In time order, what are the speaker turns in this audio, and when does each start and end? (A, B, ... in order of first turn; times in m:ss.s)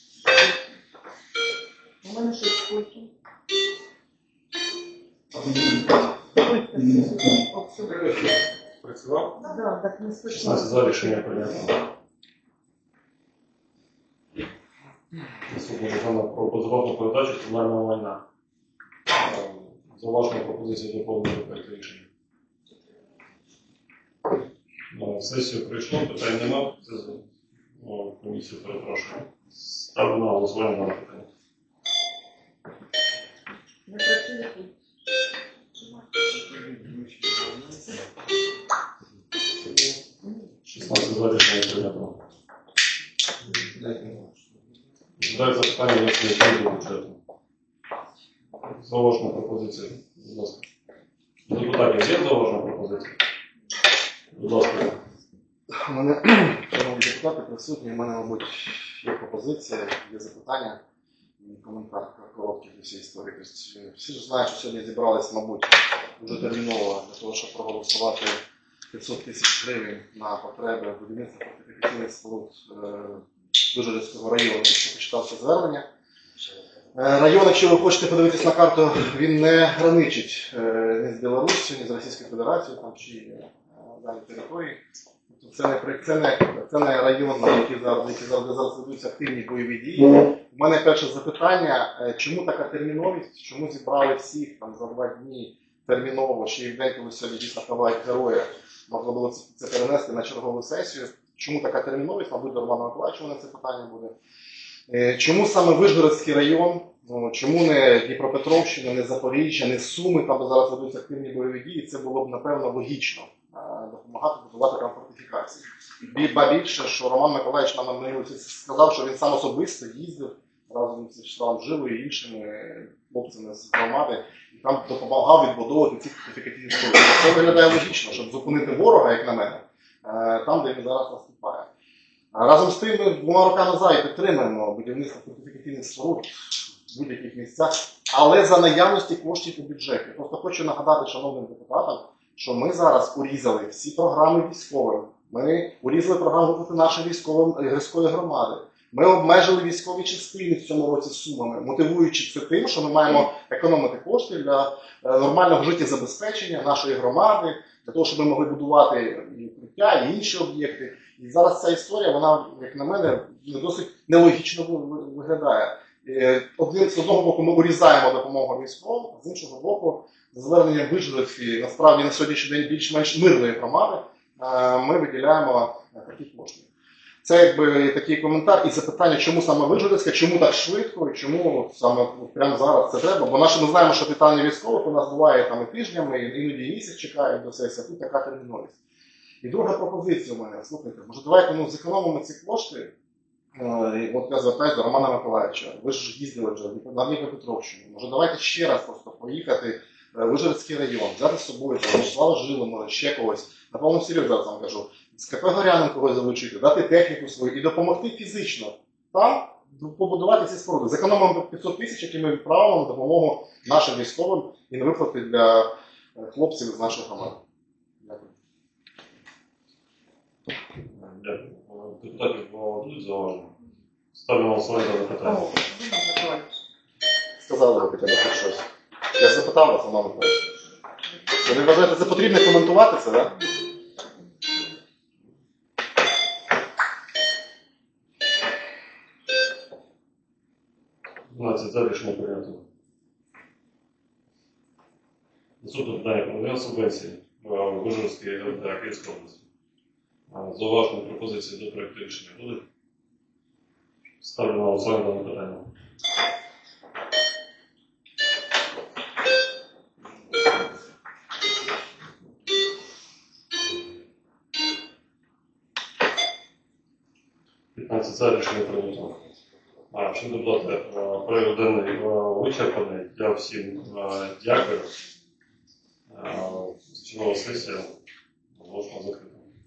0:02.0-0:03.1 A
0:06.3-0:08.1 A
0:08.8-0:09.4 B
0:09.4-0:11.0 A
0:10.3-0:11.8 B
0:15.5-0:18.2 B
0:19.2-0:22.1 B
0:24.9-0:27.2 B
0:27.8-0:31.3 B
0:33.9-0:34.7 A
0:40.6-0:42.2 B
0:45.2-0:47.2 B
0:48.7-0:50.6 B
0:51.5-0:53.2 B
0:54.3-0:55.0 B
0:55.8-1:00.8 C
1:01.4-1:08.4 C
1:08.9-1:15.9 C
1:16.9-1:44.2 C
1:44.9-2:11.7 C
2:12.3-2:56.7 C
2:57.2-3:08.8 C
3:09.4-3:12.9 C
3:13.5-3:37.4 C
3:38.0-3:38.3 C
3:40.9-3:43.5 B
3:44.1-3:45.5 B
3:45.2-3:46.6 A
3:47.4-3:48.7 C
3:49.2-3:50.5 C
3:51.4-3:53.4 C
4:01.3-4:02.6 B
4:05.6-4:09.4 B
4:10.3-4:12.6 B
4:14.2-4:15.7 B
4:27.7-4:29.2 B
4:29.9-4:34.9 B
4:36.1-4:37.9 B
4:38.5-4:39.4 B